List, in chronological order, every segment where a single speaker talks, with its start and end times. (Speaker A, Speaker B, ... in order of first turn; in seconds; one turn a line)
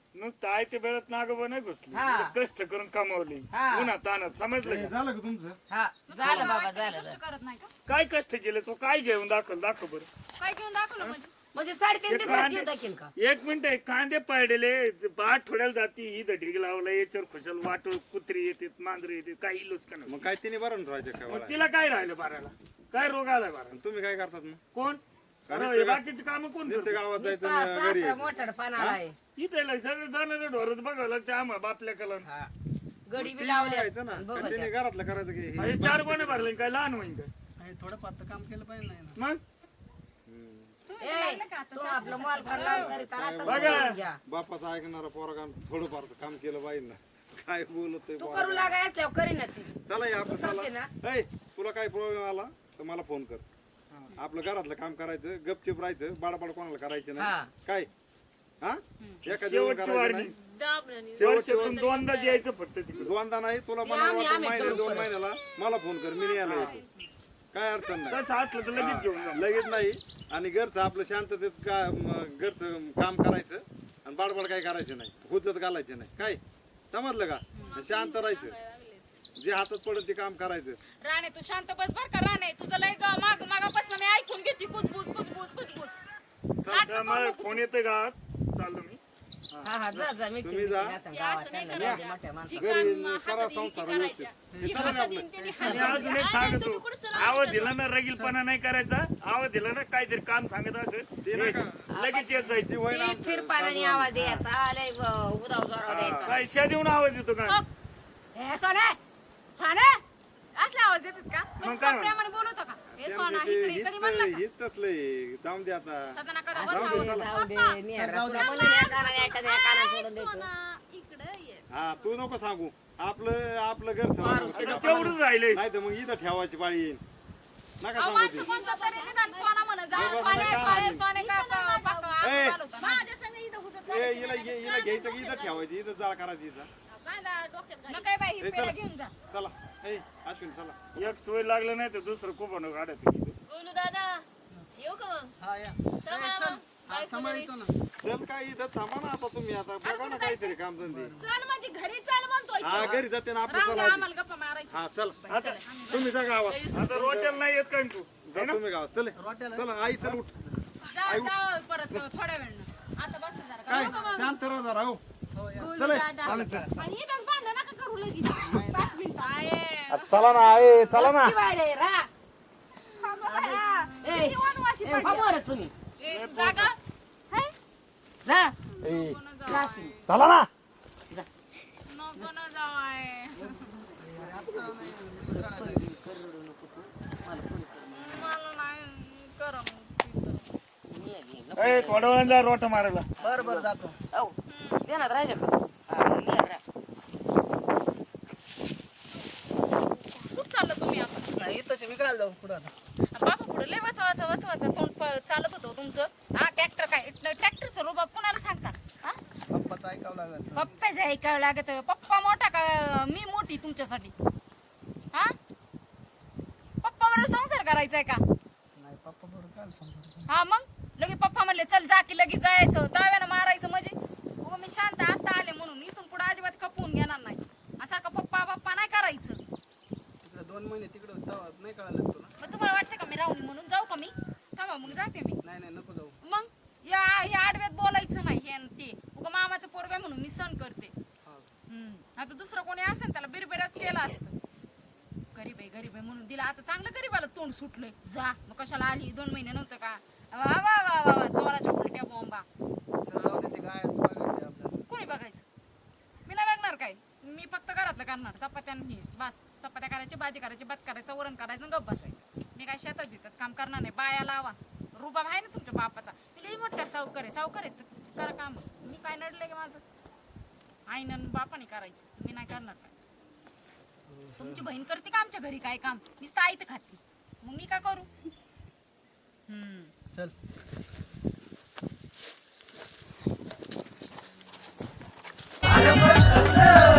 Speaker A: 0.1-4.9
Speaker B: 1.9-2.4
Speaker B: 3.5-3.9
Speaker C: 4.6-5.6
Speaker B: 5.7-7.2
Speaker D: 6.1-7.7
Speaker A: 7.9-10.1
Speaker D: 10.4-11.3
Speaker B: 11.5-13.1
Speaker A: 12.1-20.2
Speaker C: 20.1-21.6
Speaker A: 21.3-23.8
Speaker C: 23.7-24.6
Speaker A: 24.7-27.0
Speaker C: 25.5-26.0
Speaker C: 26.6-29.0
Speaker B: 27.1-29.1
Speaker A: 29.4-32.2
Speaker B: 32.2-32.5
Speaker B: 33.1-34.7
Speaker C: 33.1-36.5
Speaker A: 35.6-37.3
Speaker E: 37.6-39.2
Speaker C: 40.2-40.7
Speaker D: 40.9-43.0
Speaker B: 41.0-44.2
Speaker C: 42.5-48.8
Speaker A: 43.4-43.9
Speaker B: 48.2-50.9
Speaker C: 49.9-53.4
Speaker C: 54.1-57.9
Speaker B: 57.1-57.5
Speaker C: 58.6-60.3
Speaker D: 59.0-59.2
Speaker A: 59.3-60.3
Speaker F: 60.3-62.5
Speaker C: 61.1-61.8
Speaker A: 61.2-63.1
Speaker C: 62.9-66.8
Speaker B: 63.8-65.1
Speaker A: 66.4-66.7
Speaker D: 66.5-66.8
Speaker C: 67.5-68.2
Speaker A: 68.1-69.4
Speaker C: 68.7-76.4
Speaker C: 76.9-78.5
Speaker G: 77.6-79.0
Speaker C: 79.4-80.8
Speaker D: 81.0-85.9
Speaker D: 86.7-87.6
Speaker A: 86.8-89.0
Speaker B: 89.6-92.9
Speaker C: 89.9-91.0
Speaker F: 91.1-92.1
Speaker C: 91.7-92.0
Speaker D: 92.5-97.8
Speaker C: 92.5-95.9
Speaker E: 94.5-95.0
Speaker A: 95.6-102.8
Speaker B: 95.6-96.2
Speaker F: 96.1-97.2
Speaker C: 101.2-101.9
Speaker B: 101.9-106.4
Speaker C: 102.5-104.5
Speaker C: 105.9-106.4
Speaker A: 106.2-107.6
Speaker D: 108.3-109.0
Speaker D: 109.6-110.0
Speaker D: 110.5-114.4
Speaker A: 111.6-112.1
Speaker C: 113.0-117.3
Speaker D: 116.1-117.2
Speaker B: 116.5-120.5
Speaker E: 117.9-118.5
Speaker G: 118.4-122.1
Speaker C: 121.7-127.0
Speaker B: 124.2-125.2
Speaker D: 124.4-125.1
Speaker A: 124.5-125.6
Speaker C: 127.8-128.5
Speaker D: 128.0-133.1
Speaker G: 128.3-132.1
Speaker C: 129.9-131.0
Speaker C: 132.2-132.6
Speaker G: 132.8-135.6
Speaker C: 133.9-136.7
Speaker G: 136.9-138.1
Speaker D: 137.9-139.1
Speaker C: 138.4-138.8
Speaker C: 139.3-141.1
Speaker A: 140.9-143.4
Speaker F: 143.5-144.2
Speaker F: 144.8-145.3
Speaker E: 145.4-147.7
Speaker F: 146.0-147.5
Speaker C: 148.0-151.1
Speaker G: 149.9-150.5
Speaker E: 150.8-151.3
Speaker G: 151.2-153.0
Speaker C: 152.6-154.1
Speaker D: 153.5-156.2
Speaker C: 154.7-155.2
Speaker A: 155.3-155.6
Speaker C: 155.8-157.4
Speaker F: 156.5-156.7
Speaker A: 156.7-158.6
Speaker C: 158.2-160.4
Speaker E: 159.2-160.5
Speaker D: 160.9-164.1
Speaker C: 161.0-161.3
Speaker C: 163.7-165.0
Speaker F: 163.9-164.3
Speaker E: 165.3-166.8
Speaker F: 165.6-166.2
Speaker C: 165.7-166.7
Speaker D: 165.9-166.4
Speaker G: 166.8-169.4
Speaker E: 168.5-168.9
Speaker D: 169.2-170.2
Speaker C: 169.9-171.4
Speaker B: 170.9-172.1
Speaker G: 173.0-175.3
Speaker B: 173.2-175.7
Speaker D: 176.0-176.8
Speaker A: 176.1-176.7
Speaker B: 178.2-178.5
Speaker D: 178.8-179.9
Speaker C: 178.8-179.2
Speaker B: 179.4-180.0
Speaker E: 179.7-180.0
Speaker C: 180.1-180.5
Speaker D: 181.9-183.6
Speaker E: 183.4-185.8
Speaker B: 184.0-188.3
Speaker D: 187.9-190.5
Speaker B: 190.9-192.4
Speaker A: 191.6-193.1
Speaker E: 193.2-194.0
Speaker B: 193.2-196.6
Speaker D: 194.5-194.8
Speaker D: 200.2-201.3
Speaker E: 201.3-202.7
Speaker D: 203.1-209.2
Speaker E: 209.5-210.7
Speaker D: 210.5-214.1
Speaker D: 216.8-218.2
Speaker E: 218.8-220.3
Speaker D: 220.3-229.4
Speaker E: 230.2-232.3
Speaker D: 232.4-235.4
Speaker E: 234.8-236.1
Speaker D: 236.2-240.9
Speaker E: 241.2-241.5
Speaker D: 241.7-244.3
Speaker D: 245.3-252.4
Speaker E: 253.1-254.7
Speaker D: 254.8-255.4
Speaker D: 256.2-269.8
Speaker D: 270.9-272.9
Speaker E: 274.1-274.7
Speaker D: 274.4-278.1
Speaker D: 279.5-279.9